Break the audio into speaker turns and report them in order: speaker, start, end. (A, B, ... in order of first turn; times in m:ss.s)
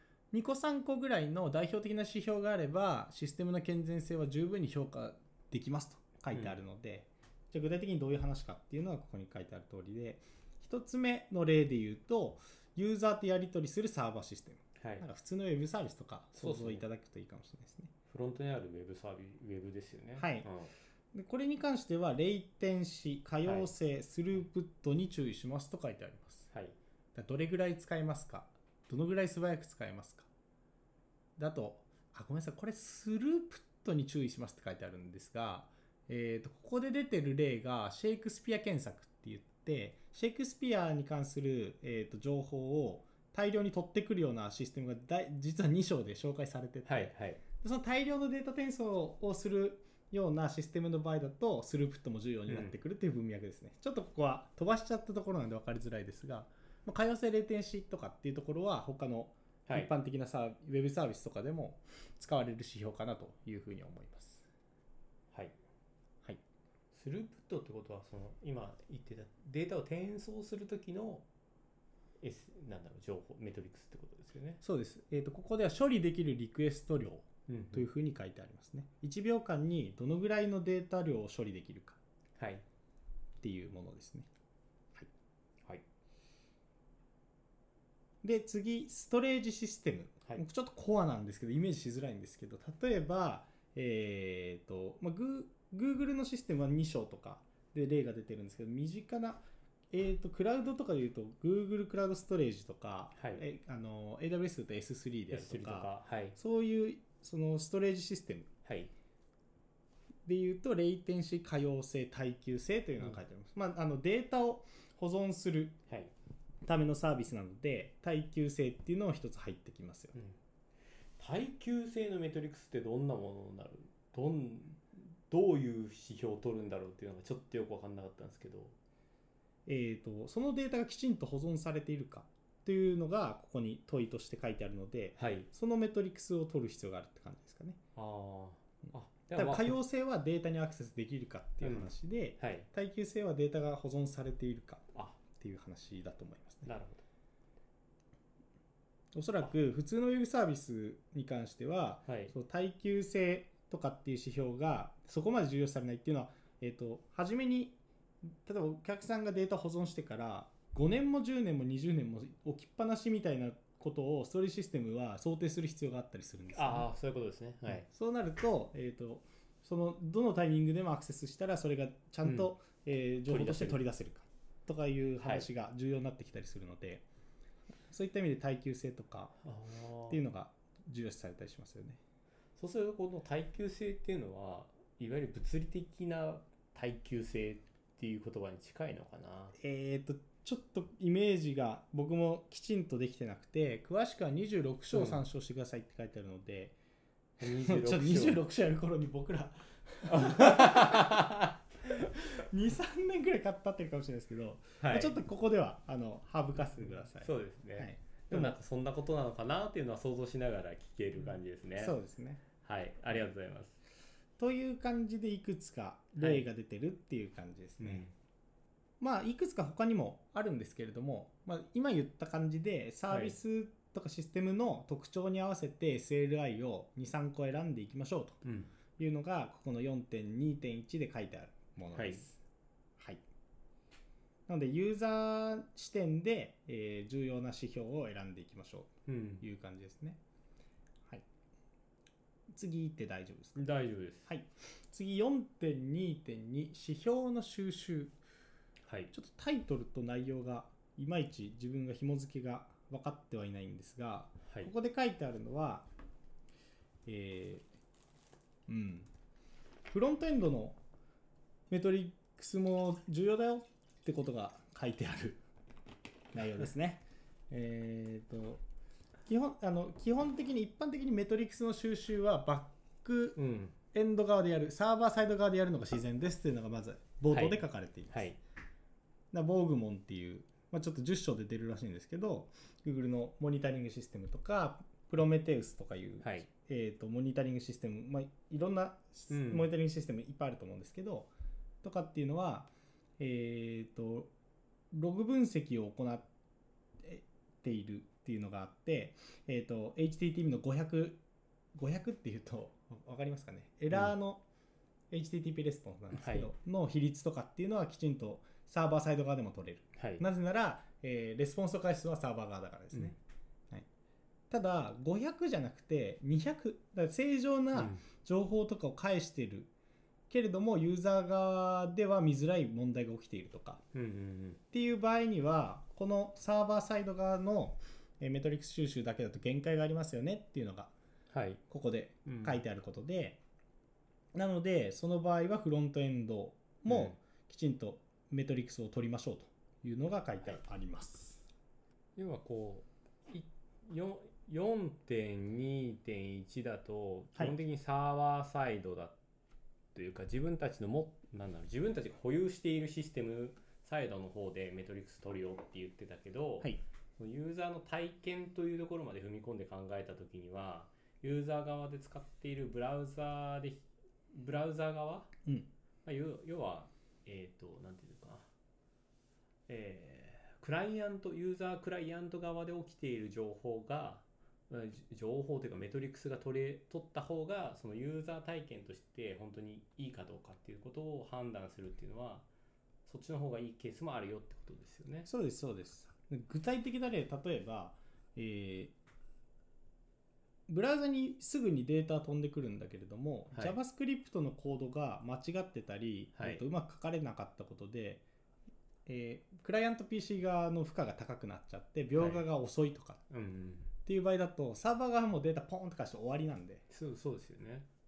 0:00.3-0:17.9 A
0:14.8-0:15.0 B
0:16.3-0:16.8 B
0:18.1-0:20.7 B
0:20.2-0:20.5 A
0:21.1-0:26.5 A
0:23.4-0:23.7 B
0:26.5-0:26.8 B
0:27.1-0:30.3 A
0:31.4-1:04.4 A
0:46.8-0:47.4 B
0:52.5-0:52.8 B
1:05.3-1:05.6 B
1:06.9-1:11.2 B
1:12.2-1:14.6 B
1:14.6-1:22.0 A
1:17.5-1:17.9 B
1:22.4-1:22.6 B
1:23.4-1:24.3 A
1:28.2-1:48.5 A
1:43.2-1:43.4 B
1:45.3-1:46.4 B
1:48.6-1:48.9 B
1:50.2-1:55.8 A
1:56.6-2:00.2 A
2:01.2-2:08.8 B
2:09.6-2:17.8 A
2:15.2-2:15.5 B
2:17.9-2:19.8 B
2:18.9-2:26.7 A
2:21.6-2:22.7 B
2:24.9-2:25.2 B
2:26.6-2:27.0 B
2:29.1-2:37.8 A
2:32.0-2:32.3 B
2:38.4-2:46.9 A
2:46.5-2:47.9 B
2:47.7-2:57.0 A
2:52.2-2:52.5 B
2:53.3-2:53.8 B
2:55.2-2:55.5 B
2:57.9-2:59.3 A
2:59.4-3:00.2 B
3:00.1-3:02.0 A
3:02.6-3:09.6 B
3:09.6-3:16.8 A
3:14.9-3:15.2 B
3:17.4-3:18.4 B
3:17.4-3:21.1 A
3:20.1-3:21.6 B
3:21.9-3:28.6 A
3:24.8-3:25.2 B
3:27.2-3:32.0 B
3:31.8-3:32.4 A
3:32.6-3:33.8 B
3:34.4-3:38.1 A
3:36.2-3:36.5 B
3:37.8-3:38.1 B
3:39.0-3:48.4 A
3:43.1-3:43.3 B
3:48.4-3:48.7 B
3:49.0-3:52.4 A
3:51.9-3:52.2 B
3:54.5-4:00.2 A
3:59.0-3:59.4 B
4:02.5-4:03.6 A
4:03.6-4:04.3 B
4:04.3-4:08.2 A
4:08.8-4:09.1 B
4:09.1-4:15.8 A
4:17.0-4:17.6 A
4:18.7-4:19.1 A
4:19.9-4:20.8 A
4:21.7-4:25.4 A
4:26.3-4:28.6 A
4:29.2-4:33.4 A
4:33.4-4:33.8 B
4:33.9-4:38.3 A
4:37.3-4:38.4 B
4:39.3-4:51.3 A
4:46.2-4:46.5 B
4:49.3-4:49.7 B
4:51.8-4:54.3 A
4:54.9-4:56.3 A
4:57.0-5:01.2 A
5:01.7-5:04.4 A
5:05.1-5:13.2 A
5:06.1-5:06.5 B
5:10.0-5:10.2 B
5:14.5-5:19.7 A
5:17.7-5:18.0 B
5:20.3-5:23.8 A
5:23.9-5:24.6 B
5:24.7-5:30.9 A
5:31.3-5:31.6 B
5:31.7-5:33.4 A
5:32.2-5:32.6 B
5:34.3-5:41.4 A
5:36.9-5:37.2 B
5:42.2-5:49.2 B
5:49.9-6:05.3 B
6:06.0-6:08.5 B
6:09.7-6:22.5 B
6:23.0-6:25.3 B
6:25.3-6:28.9 A
6:30.7-6:38.2 A
6:33.5-6:33.8 B
6:36.4-6:36.6 B
6:39.0-6:43.2 A
6:42.1-6:42.4 B
6:43.3-6:43.9 B
6:44.0-6:46.8 A
6:46.9-6:47.9 B